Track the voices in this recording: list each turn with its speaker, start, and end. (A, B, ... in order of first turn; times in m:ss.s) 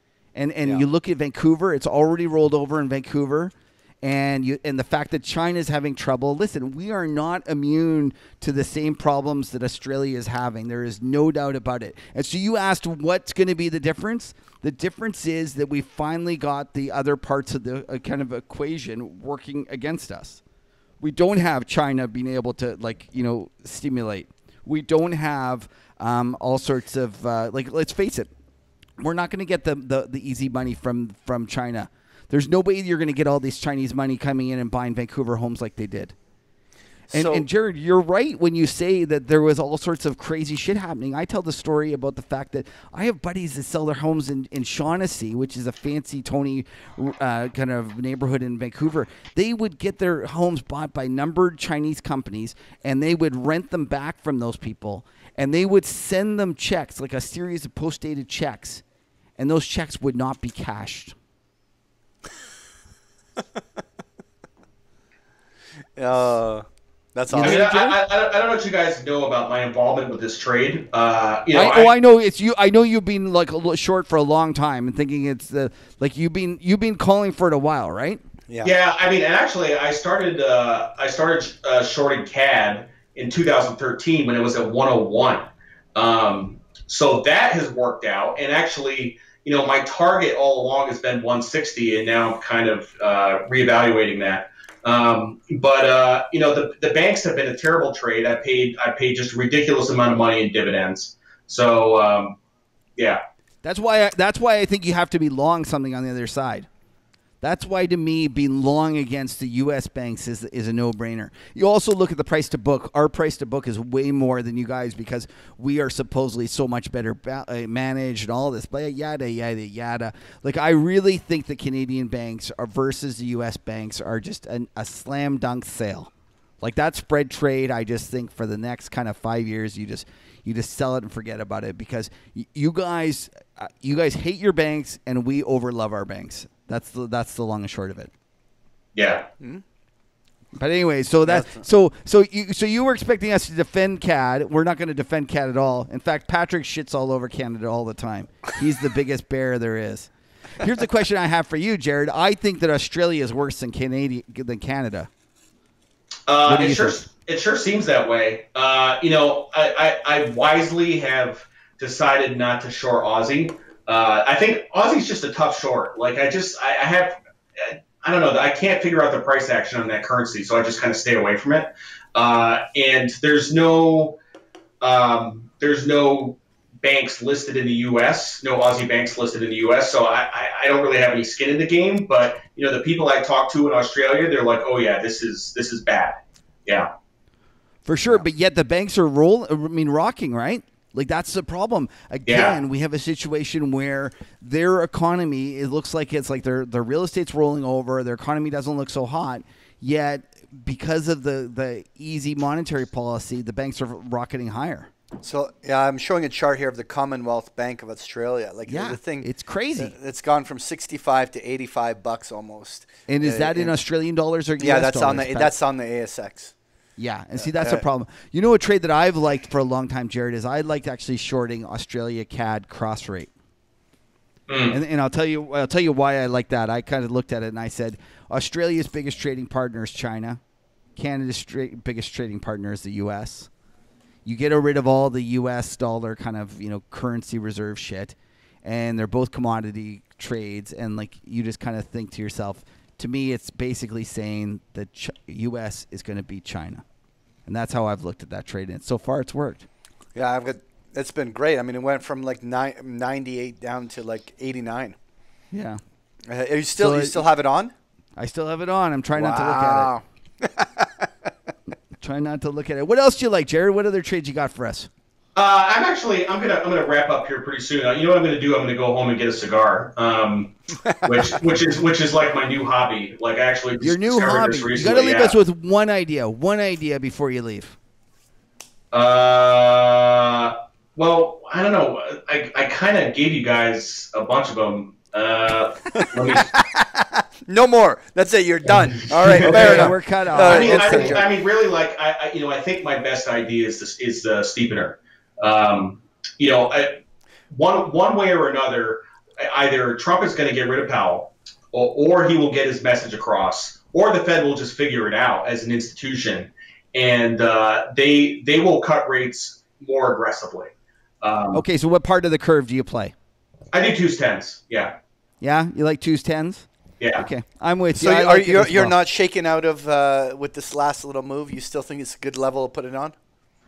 0:00.4-0:20.4 A
0:21.0-0:28.3 A
0:29.0-0:36.1 A
0:37.1-0:37.5 B
0:37.1-0:58.8 A
0:59.4-1:01.1 A
1:06.0-1:07.7 B
1:07.3-1:08.0 A
1:07.4-1:11.9 C
1:11.5-1:18.2 A
1:18.6-1:42.4 C
1:43.6-1:46.7 A
1:47.4-2:18.1 A
2:19.0-2:19.3 C
2:20.6-2:35.1 A
2:21.3-2:21.6 B
2:36.3-2:54.2 C
2:36.4-2:37.0 A
2:54.8-3:06.9 C
3:07.8-3:24.9 A
3:12.3-3:12.6 C
3:25.2-3:33.8 B
3:28.7-3:30.0 A
3:33.1-3:35.5 A
3:34.6-3:36.5 B
3:37.0-3:43.3 A
3:37.4-3:37.8 B
3:44.5-3:44.8 C
3:44.7-3:50.4 A
3:51.0-3:53.5 A
3:54.2-4:06.8 A
4:07.5-4:09.7 A
4:10.2-4:15.0 B
4:15.5-4:15.8 A
4:16.3-4:17.7 B
4:16.8-4:17.2 A
4:18.2-4:19.9 A
4:19.2-4:21.3 B
4:22.0-4:24.9 A
4:25.4-4:35.4 C
4:30.9-4:31.2 B
4:33.8-4:37.8 A
4:38.9-4:46.5 C
4:46.0-4:51.3 B
4:49.2-4:51.2 A
4:49.3-4:57.0 C
4:57.5-5:11.6 C
5:11.5-5:13.1 A
5:13.7-5:15.0 C
5:15.4-5:18.9 A
5:17.0-5:17.3 C
5:18.0-5:23.2 B